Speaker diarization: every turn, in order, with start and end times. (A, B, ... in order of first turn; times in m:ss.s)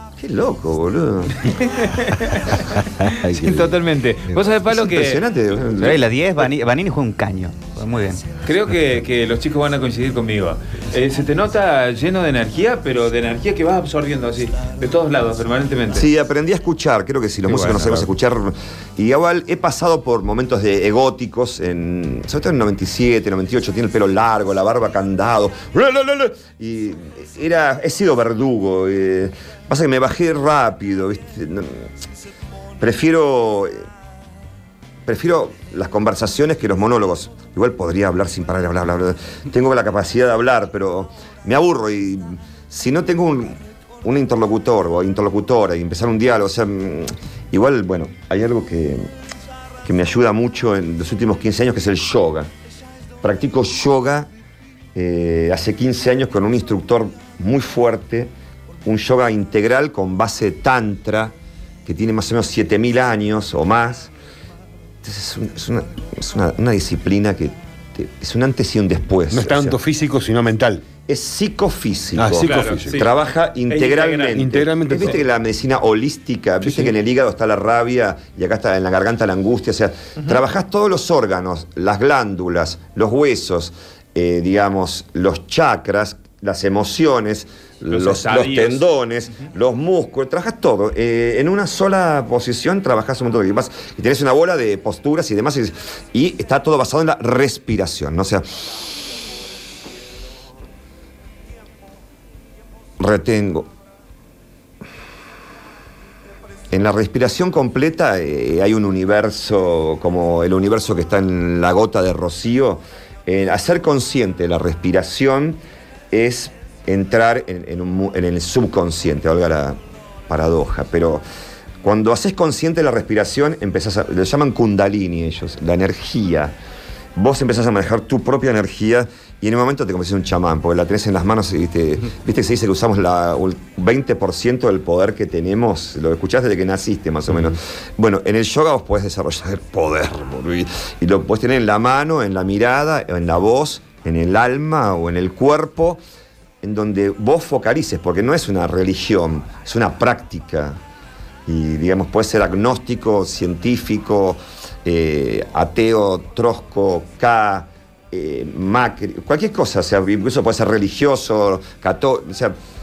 0:00.2-0:01.6 A
0:01.7-0:05.2 B
0:03.0-0:03.7 C
0:04.3-0:06.1 A
0:05.8-0:08.2 D
0:08.5-0:16.0 B
0:15.9-0:31.9 A
0:17.5-0:18.0 C
0:32.8-0:33.9 A
0:35.1-0:49.1 A
0:49.8-0:52.5 A
0:53.2-0:54.3 A
0:55.0-0:58.3 A
0:58.8-1:01.3 A
1:01.8-1:04.1 A
1:05.0-1:09.8 A
1:09.3-1:10.8 C
1:11.1-1:38.9 A
1:12.2-1:13.0 C
1:12.4-1:13.1 B
1:13.7-1:14.6 B
1:14.3-1:15.2 C
1:16.6-1:17.0 C
1:27.9-1:28.8 B
1:43.0-1:43.7 A
1:46.7-1:55.6 A
1:56.1-1:59.8 A
2:00.3-2:01.2 A
2:01.8-2:06.6 A
2:07.2-2:26.0 A
2:26.6-2:30.8 A
2:31.5-2:42.6 A